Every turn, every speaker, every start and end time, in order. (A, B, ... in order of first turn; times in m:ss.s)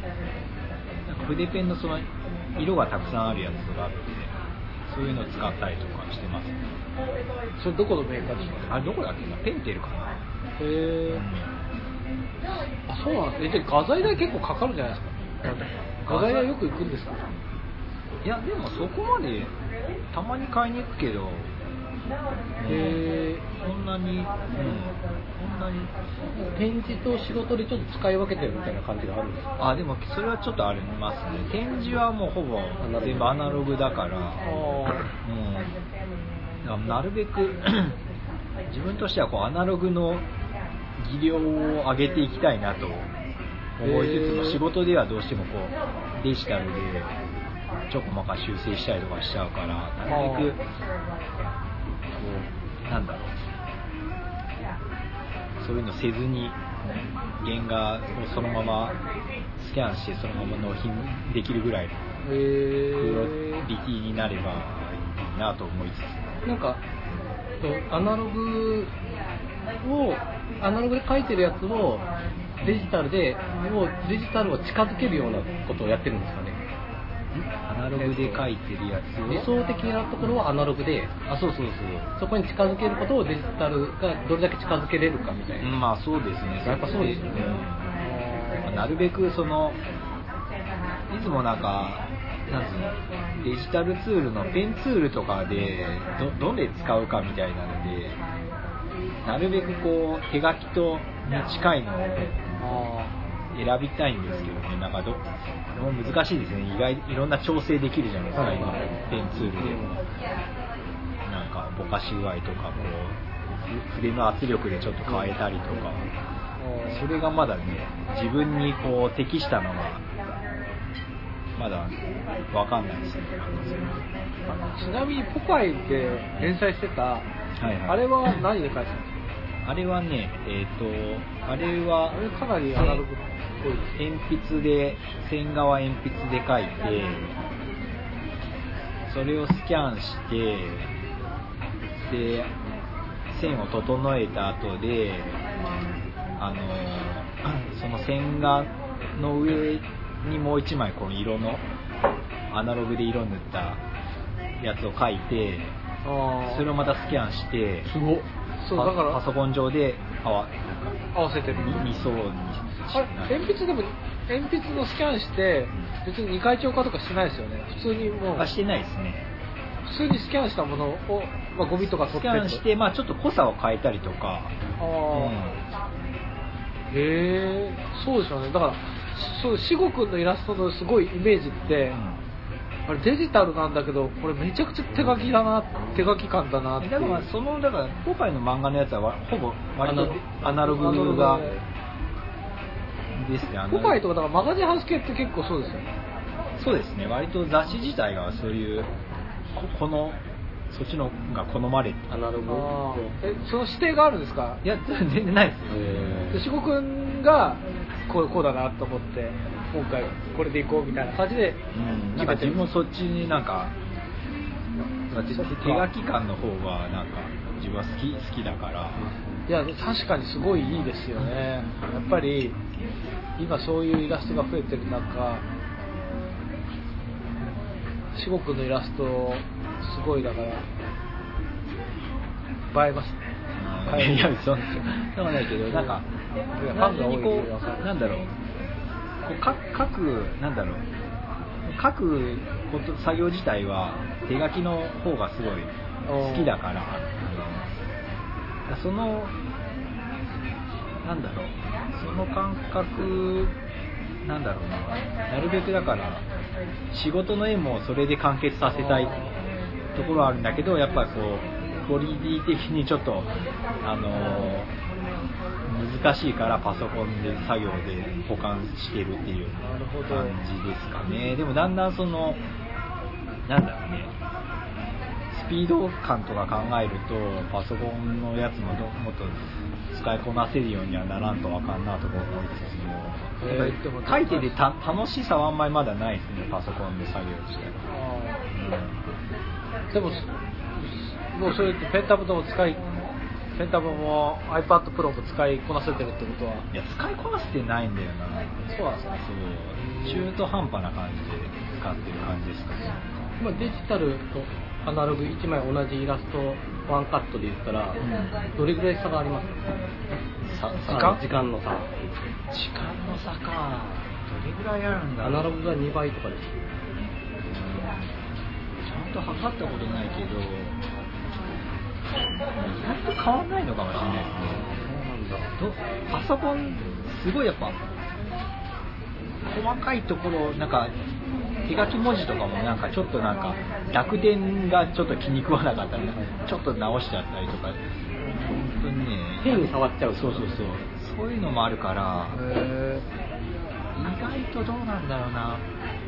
0:01.1-0:02.0 A
0:02.6-0:04.3 A
0:04.9-0:06.6 A
0:07.6-0:08.8 B
0:08.6-0:10.2 A
0:10.6-0:11.2 B
0:11.1-0:11.5 A
0:12.9-0:17.2 B
0:16.1-0:16.5 A
0:18.2-0:19.5 A
0:20.1-0:21.5 A
0:22.6-0:25.9 A
0:22.7-0:23.4 B
0:26.4-0:29.5 C
0:29.6-0:35.8 A
0:32.8-0:33.4 C
0:34.4-0:35.1 B
0:36.6-0:38.0 A
0:38.7-0:40.2 A
0:41.0-0:43.1 A
0:43.8-0:47.2 A
0:43.8-0:44.6 B
0:47.9-0:50.6 A
0:50.1-0:50.5 B
0:52.2-0:52.5 C
0:52.8-0:53.4 A
0:55.6-0:59.0 A
0:59.6-1:02.0 A
1:02.2-1:03.6 B
1:02.9-1:06.4 A
1:06.4-1:06.8 C
1:07.6-1:08.9 C
1:09.8-1:12.1 C
1:12.6-1:12.9 A
1:12.6-1:16.6 C
1:17.3-1:19.5 A
1:18.0-1:18.4 C
1:19.3-1:21.1 C
1:21.3-1:22.1 A
1:22.2-1:25.7 C
1:25.6-1:27.9 A
1:26.6-1:27.6 C
1:28.0-1:28.8 B
1:28.6-1:29.8 A
1:31.1-1:38.2 A
1:39.2-1:42.8 A
1:42.6-1:43.2 B
1:43.5-1:49.8 A
1:48.3-1:48.6 B
1:48.3-1:50.0 C
1:51.2-1:56.1 A
1:56.6-1:57.1 B
1:56.8-2:00.0 A
2:01.6-2:04.0 A
2:04.7-2:07.3 B
2:07.6-2:08.3 A
2:07.9-2:09.1 B
2:09.6-2:12.2 A
2:12.1-2:14.0 B
2:12.7-2:13.0 A
2:14.0-2:17.4 A
2:19.1-2:20.9 A
2:22.0-2:22.5 A
2:23.3-2:25.4 A
2:26.4-2:31.6 A
2:32.5-2:33.8 A
2:34.6-2:35.8 A
2:36.0-2:36.7 B
2:36.4-2:37.9 A
2:37.8-2:38.3 C
2:38.6-2:39.2 B
2:38.7-2:43.5 A
2:41.1-2:41.9 B
2:42.9-2:48.5 B
2:48.4-2:49.3 A
2:49.8-2:52.6 B
2:51.8-2:54.6 A
2:54.8-2:55.4 B
2:55.1-2:55.6 A
2:56.9-3:02.0 B
3:01.9-3:02.2 A
3:02.9-3:07.3 B
3:06.8-3:11.4 A
3:09.8-3:11.4 C
3:10.5-3:11.6 B
3:13.1-3:14.0 A
3:13.5-3:15.9 B
3:16.6-3:18.9 A
3:19.6-3:20.2 A
3:20.7-3:22.1 A
3:22.1-3:23.2 C
3:22.5-3:24.6 B
3:24.6-3:26.3 A
3:25.7-3:26.4 C
3:26.3-3:31.6 B
3:31.7-3:33.7 A
3:32.2-3:32.6 B
3:35.1-3:39.1 A
3:35.3-3:35.9 B
3:39.5-3:42.6 B
3:40.6-3:40.9 A
3:43.4-3:45.4 B
3:48.1-3:50.6 B
3:52.7-3:53.3 B
3:53.6-3:56.1 A
3:53.9-3:54.4 B
3:55.7-3:56.0 B
3:56.5-3:57.9 B
3:56.7-3:58.3 A
3:59.2-4:00.8 A
4:01.6-4:07.7 A
4:06.1-4:06.6 B
4:08.7-4:09.4 A
4:11.0-4:13.6 A
4:14.2-4:16.2 A
4:16.9-4:19.2 A
4:18.7-4:19.4 B
4:20.0-4:23.3 A
4:23.8-4:24.7 A
4:24.2-4:24.5 B
4:25.6-4:32.4 A
4:29.6-4:30.4 B
4:33.5-4:34.1 A
4:35.3-4:47.9 A
4:43.4-4:44.6 B
4:47.9-4:48.4 B
4:48.5-4:49.1 A
4:49.9-4:52.8 B
4:53.6-4:56.7 B
4:56.7-5:03.3 A
4:59.8-5:00.3 B
5:03.4-5:08.0 C
5:08.0-5:08.5 A
5:08.5-5:09.6 C
5:10.4-5:11.4 A
5:10.8-5:12.0 C
5:10.9-5:11.2 B
5:12.5-5:15.7 A
5:15.2-5:16.5 C
5:17.5-5:18.1 A
5:18.8-5:20.8 A
5:22.5-5:24.8 A
5:24.0-5:25.5 C
5:25.6-5:27.8 A
5:29.5-5:30.9 A
5:31.7-5:37.8 A
5:38.4-5:42.4 A
5:39.4-5:40.6 C
5:42.4-5:43.0 B
5:44.0-5:45.6 A